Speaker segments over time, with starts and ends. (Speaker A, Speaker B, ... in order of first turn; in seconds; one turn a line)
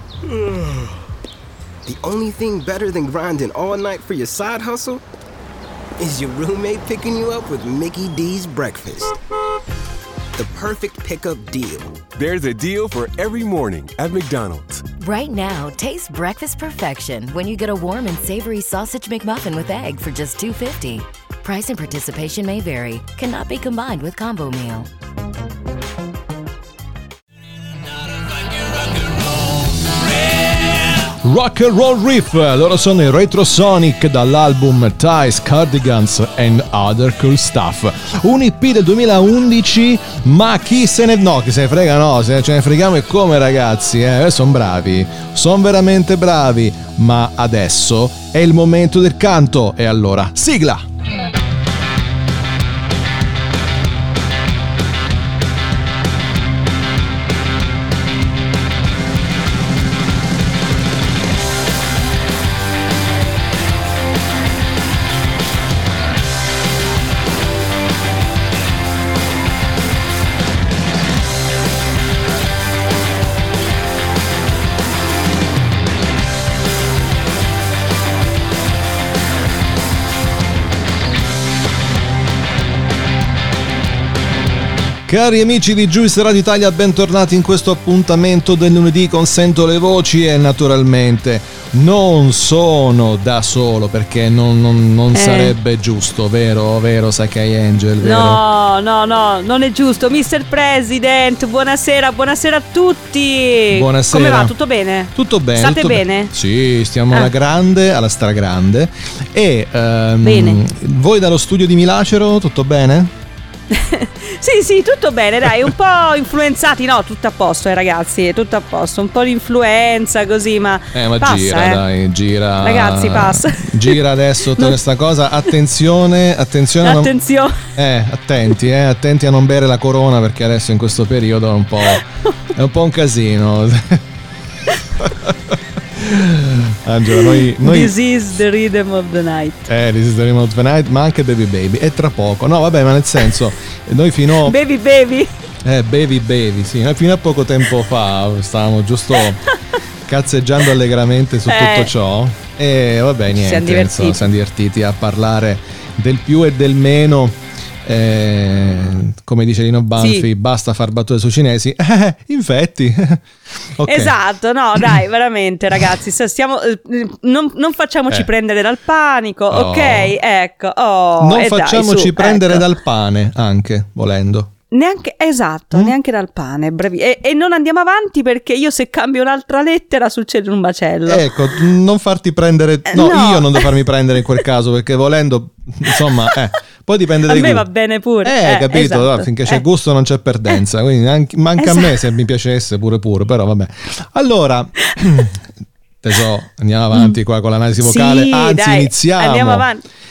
Speaker A: 0.2-0.9
Speaker A: 1.9-5.0
Speaker A: 6.0-9.2
Speaker A: 10.4-12.0
Speaker B: 12.2-14.8
Speaker C: 15.0-24.9
Speaker D: 30.6-50.9
Speaker D: 85.1-98.4
Speaker E: 95.1-95.5
Speaker E: 98.0-106.3
Speaker D: 103.7-104.5
Speaker D: 105.1-113.1
Speaker E: 110.2-110.6
Speaker E: 113.7-121.8
Speaker D: 120.9-127.1
Speaker E: 122.6-124.0
Speaker E: 126.8-127.7
Speaker D: 127.7-134.1
Speaker D: 135.0-137.9
Speaker E: 137.1-139.7
Speaker D: 139.7-144.6
Speaker E: 144.4-145.3
Speaker D: 145.6-149.5
Speaker D: 150.1-164.2
Speaker E: 151.5-151.9
Speaker E: 153.3-154.2
Speaker E: 160.0-160.3
Speaker E: 163.8-172.7
Speaker D: 169.5-170.1
Speaker D: 171.2-174.5
Speaker E: 174.7-181.6
Speaker D: 181.1-187.7
Speaker E: 182.9-183.8
Speaker E: 185.9-186.4
Speaker E: 187.3-189.6
Speaker D: 188.2-195.4
Speaker E: 191.6-192.1
Speaker D: 196.0-199.7
Speaker E: 197.8-199.8